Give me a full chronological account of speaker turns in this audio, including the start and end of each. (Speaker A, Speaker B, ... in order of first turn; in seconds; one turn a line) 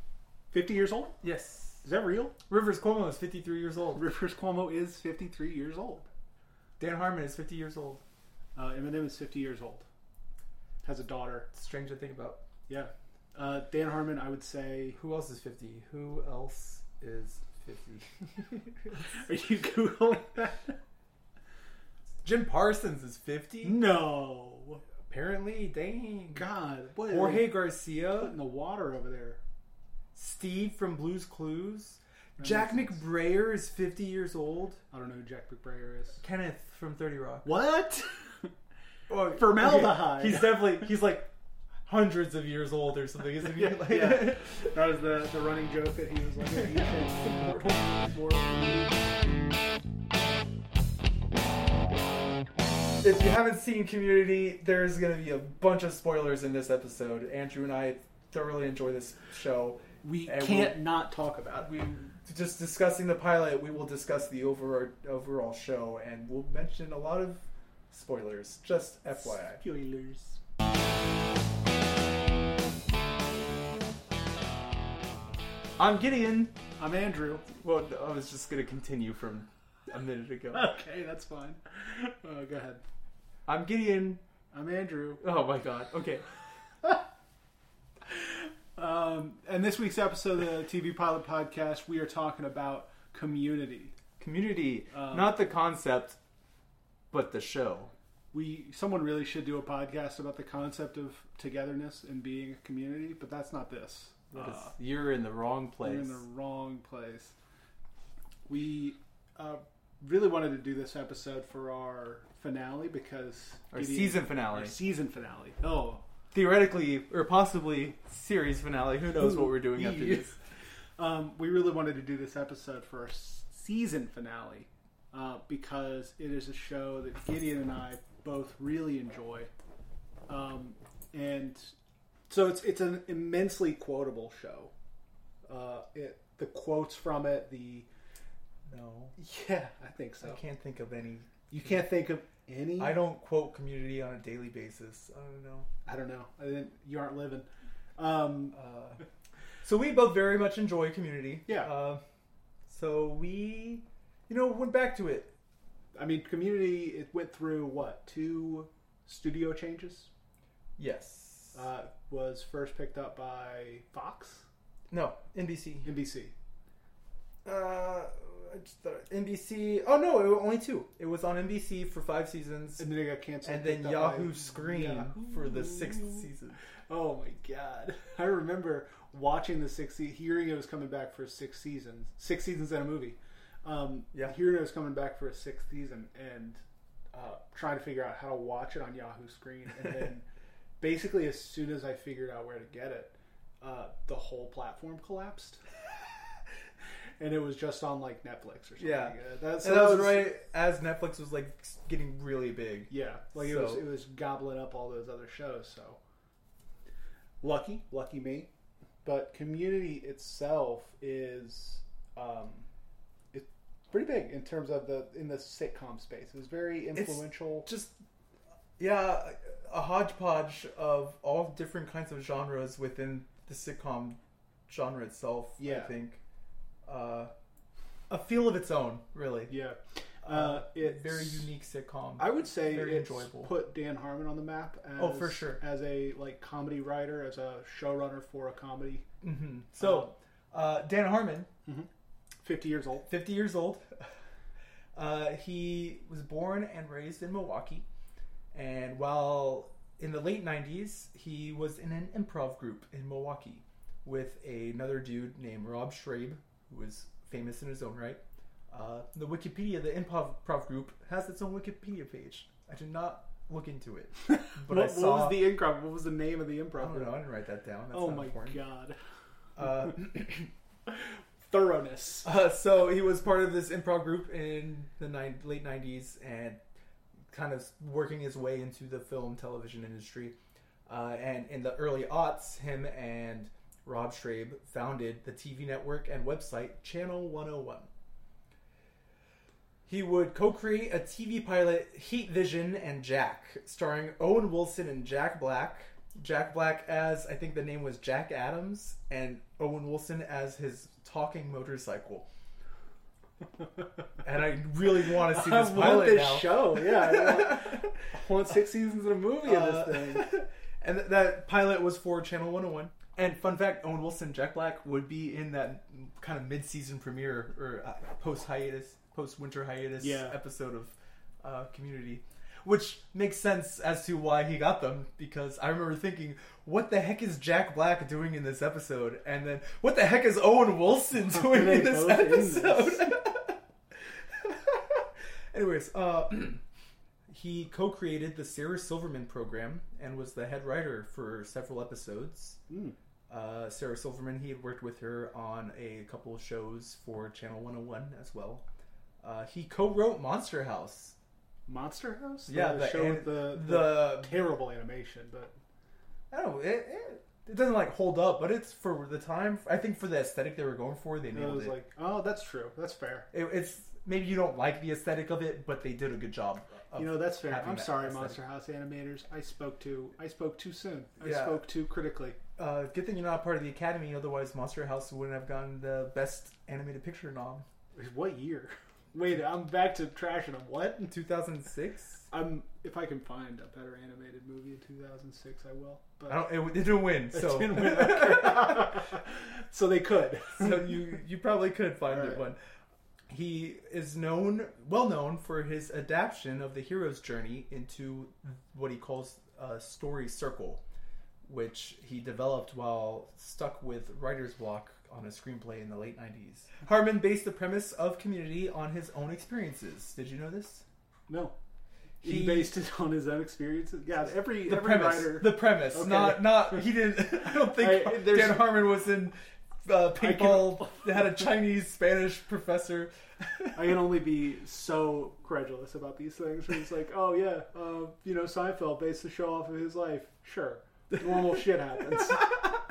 Speaker A: 0.5-1.2
Speaker B: 1.2-1.8
Speaker A: 1.8-2.3
Speaker B: 2.5-4.0
Speaker A: 3.9-6.1
Speaker B: 6.8-8.0
Speaker A: 8.5-9.8
Speaker A: 10.8-11.5
Speaker B: 11.5-12.4
Speaker A: 12.7-15.0
Speaker B: 14.9-19.1
Speaker A: 18.9-20.8
Speaker B: 22.2-23.8
Speaker A: 23.6-24.8
Speaker B: 25.1-28.3
Speaker A: 26.3-27.6
Speaker A: 28.1-29.4
Speaker B: 30.1-34.8
Speaker A: 32.4-33.0
Speaker A: 34.9-36.2
Speaker B: 36.2-37.6
Speaker A: 37.4-38.5
Speaker B: 39.1-41.3
Speaker A: 39.3-40.9
Speaker B: 41.9-44.7
Speaker A: 43.4-49.1
Speaker B: 53.0-60.8
Speaker A: 60.0-61.7
Speaker B: 61.5-69.6
Speaker A: 69.2-70.4
Speaker B: 75.8-76.5
Speaker A: 76.8-77.4
Speaker B: 77.5-80.7
Speaker A: 80.5-82.8
Speaker B: 83.5-84.2
Speaker A: 84.5-85.2
Speaker B: 85.2-86.3
Speaker A: 88.0-93.9
Speaker B: 94.2-96.2
Speaker A: 94.9-95.3
Speaker B: 97.1-97.9
Speaker A: 98.3-104.7
Speaker B: 104.3-106.2
Speaker A: 105.8-107.3
Speaker A: 108.5-116.0
Speaker B: 113.7-114.7
Speaker B: 116.3-120.3
Speaker A: 119.1-120.3
Speaker A: 121.0-129.5
Speaker A: 130.3-131.7
Speaker A: 132.3-134.7
Speaker A: 135.4-137.9
Speaker B: 138.7-139.2
Speaker A: 139.2-140.4
Speaker B: 140.2-141.5
Speaker A: 141.5-143.0
Speaker B: 142.8-145.7
Speaker A: 145.8-148.6
Speaker B: 148.5-149.0
Speaker B: 149.6-152.0
Speaker B: 152.7-155.3
Speaker A: 155.9-160.1
Speaker B: 160.8-161.6
Speaker A: 161.5-164.4
Speaker B: 164.9-165.9
Speaker A: 165.8-166.3
Speaker B: 167.4-172.9
Speaker A: 172.8-176.2
Speaker B: 173.4-176.6
Speaker A: 176.9-186.6
Speaker A: 187.1-190.2
Speaker A: 190.8-195.6
Speaker A: 197.2-200.3
Speaker B: 198.8-203.8
Speaker A: 202.9-206.0
Speaker A: 207.4-208.5
Speaker A: 209.0-212.7
Speaker A: 213.3-217.7
Speaker B: 216.9-218.0
Speaker B: 218.8-226.2
Speaker A: 225.6-225.9
Speaker B: 226.8-227.3
Speaker B: 228.1-229.5
Speaker A: 229.5-231.5
Speaker B: 230.2-233.5
Speaker A: 232.2-239.1
Speaker B: 235.0-235.6
Speaker B: 239.2-241.5
Speaker A: 239.8-240.1
Speaker A: 242.4-243.1
Speaker B: 243.1-244.1
Speaker B: 244.9-247.8
Speaker B: 248.5-265.4
Speaker A: 264.3-267.2
Speaker B: 266.8-268.6
Speaker A: 267.9-269.0
Speaker B: 269.6-270.5
Speaker A: 270.9-272.3
Speaker B: 272.2-276.6
Speaker B: 277.3-280.4
Speaker B: 280.9-287.9
Speaker B: 289.9-302.3
Speaker B: 304.2-307.8
Speaker A: 305.0-310.3
Speaker B: 309.4-333.6
Speaker A: 320.0-320.4
Speaker A: 331.2-333.1
Speaker B: 334.3-336.6
Speaker B: 337.3-342.6
Speaker A: 342.7-342.9
Speaker B: 343.3-348.6
Speaker B: 349.2-351.1
Speaker A: 351.7-355.5
Speaker B: 352.5-354.4
Speaker B: 356.3-361.8
Speaker A: 361.3-363.3
Speaker B: 363.3-368.4
Speaker A: 366.9-372.4
Speaker B: 371.2-371.6
Speaker B: 372.6-377.6
Speaker A: 377.9-381.1
Speaker B: 381.1-382.3
Speaker A: 382.3-386.5
Speaker B: 386.3-389.1
Speaker A: 387.3-391.0
Speaker B: 390.5-392.6
Speaker A: 392.1-392.4
Speaker B: 393.3-400.8
Speaker B: 401.4-410.8
Speaker A: 411.3-411.5
Speaker A: 412.2-418.8
Speaker B: 412.2-412.7
Speaker B: 414.2-423.9
Speaker A: 420.2-421.4
Speaker A: 423.7-432.8